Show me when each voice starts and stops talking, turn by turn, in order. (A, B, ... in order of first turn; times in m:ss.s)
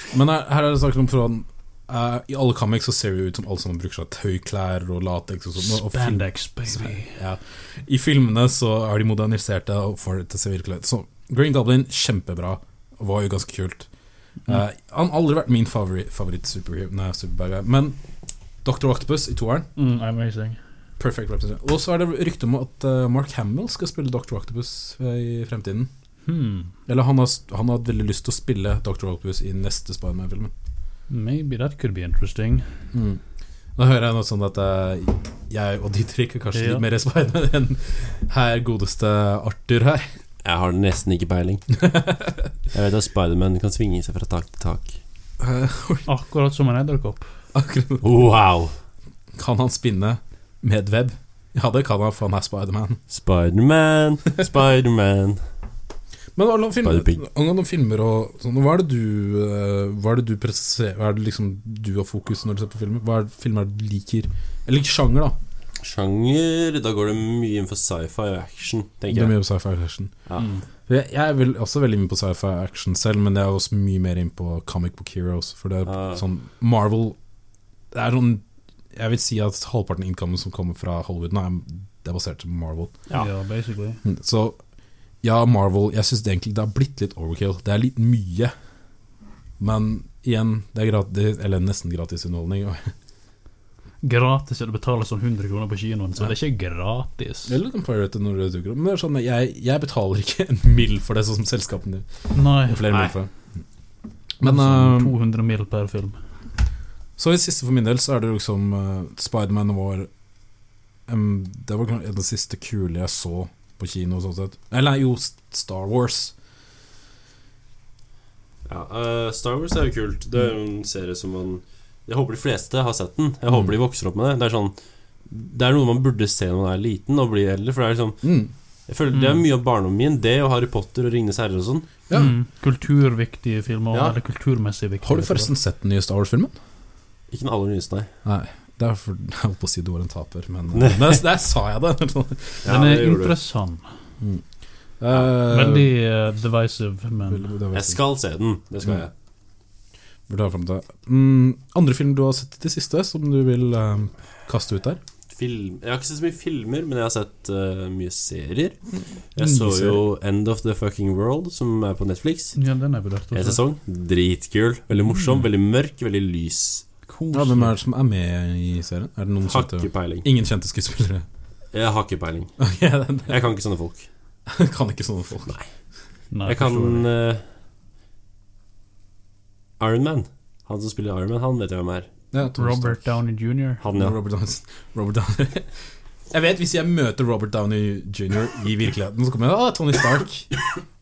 0:00.1-0:13.9 A
0:05.6-0:07.2 B
0:14.4-0:18.0 A
0:18.6-0:19.7 A
0:19.8-0:20.6 B
0:21.0-0:25.9 A
0:26.2-0:26.7 B
0:26.9-0:30.5 A
0:31.1-0:32.6 B
0:32.9-0:33.2 A
0:33.8-0:40.1 A
0:36.5-0:36.8 B
0:40.4-0:41.6 C
0:41.8-0:42.4 A
0:42.7-0:45.0 C
0:45.4-0:46.1 A
0:46.0-0:47.3 B
0:47.5-0:48.1 A
0:48.0-0:48.7 C
0:49.4-0:53.0 A
0:53.1-0:55.4 C
0:56.4-1:05.4 A
0:56.8-0:57.2 C
1:05.8-1:09.4 C
1:09.1-1:10.1 A
1:10.2-1:10.5 C
1:10.4-1:10.6 B
1:10.9-1:17.2 A
1:15.8-1:16.2 C
1:17.9-1:23.0 A
1:23.1-1:24.0 B
1:24.0-1:24.6 A
1:25.2-1:28.5 A
1:29.6-1:32.9 A
1:34.0-1:37.5 B
1:37.4-1:43.6 A
1:42.3-1:42.9 B
1:44.4-1:45.1 A
1:44.4-1:46.2 B
1:47.2-1:50.1 A
1:51.1-1:56.3 A
1:58.6-2:04.7 C
2:03.5-2:03.8 A
2:05.3-2:08.2 C
2:08.2-2:08.5 A
2:08.9-2:11.9 C
2:09.1-2:09.4 B
2:12.1-2:12.3 A
2:12.1-2:15.5 B
2:13.9-2:14.2 C
2:15.0-2:16.6 A
2:17.3-2:18.1 C
2:18.2-2:22.7 A
2:20.7-2:21.2 C
2:22.6-2:23.4 C
2:22.6-2:23.9 B
2:25.0-2:25.9 A
2:25.4-2:27.4 B
2:27.2-2:28.0 A
2:27.7-2:29.1 C
2:30.3-2:35.0 A
2:35.3-2:42.6 C
2:38.9-2:40.0 A
2:42.5-2:43.6 B
2:43.3-2:46.8 C
2:47.1-2:47.7 B
2:47.3-2:51.2 A
2:49.4-2:50.3 C
2:51.7-2:52.6 C
2:52.6-2:53.4 A
2:53.3-2:54.1 C
2:54.5-2:55.5 A
2:56.3-2:57.1 B
2:56.4-2:57.4 C
2:59.8-3:02.1 C
3:02.3-3:03.1 A
3:02.5-3:03.8 B
3:03.8-3:04.2 C
3:03.9-3:10.6 A